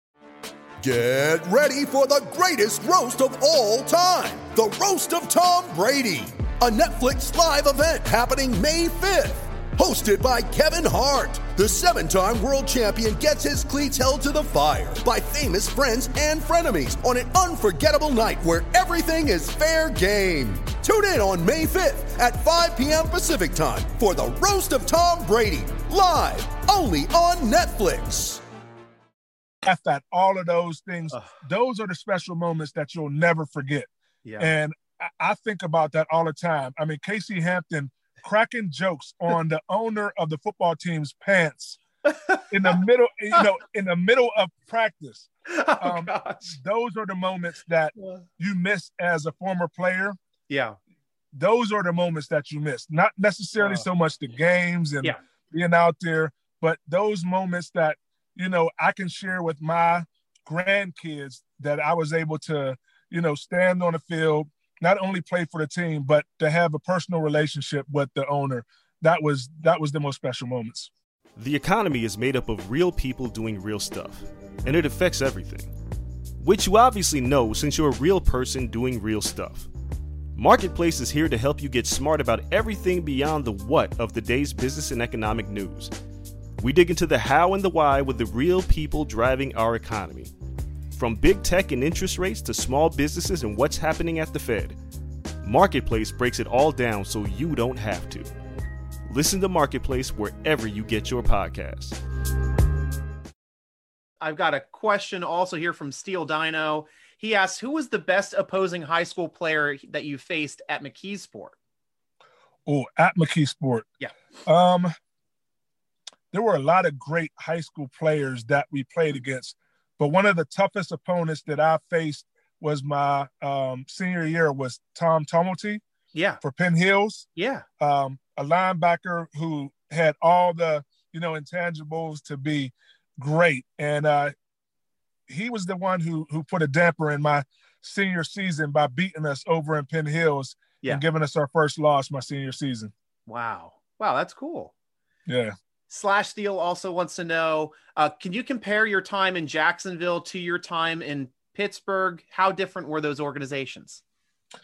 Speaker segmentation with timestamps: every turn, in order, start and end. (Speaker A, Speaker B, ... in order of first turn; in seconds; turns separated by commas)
Speaker A: 0.8-28.4, Speaker B: 29.6-33.9, Speaker C: 34.2-34.5, Speaker B: 34.4-41.8, Speaker C: 42.0-42.8, Speaker B: 42.5-50.2, Speaker C: 45.5-46.5, Speaker C: 50.5-50.8, Speaker B: 51.3-70.9, Speaker C: 53.6-53.9, Speaker D: 71.4-75.7, Speaker D: 76.4-79.7, Speaker D: 80.4-85.9, Speaker D: 86.6-90.3, Speaker D: 90.9-94.8, Speaker D: 95.4-98.3, Speaker D: 99.1-102.0, Speaker C: 104.2-111.5, Speaker B: 112.7-113.9, Speaker B: 114.5-114.9, Speaker B: 116.3-125.8, Speaker C: 126.1-126.4, Speaker B: 126.4-127.3, Speaker C: 127.4-127.7, Speaker B: 127.8-134.3, Speaker B: 135.3-142.9, Speaker C: 143.3-144.7, Speaker B: 145.3-145.5, Speaker C: 145.9-154.0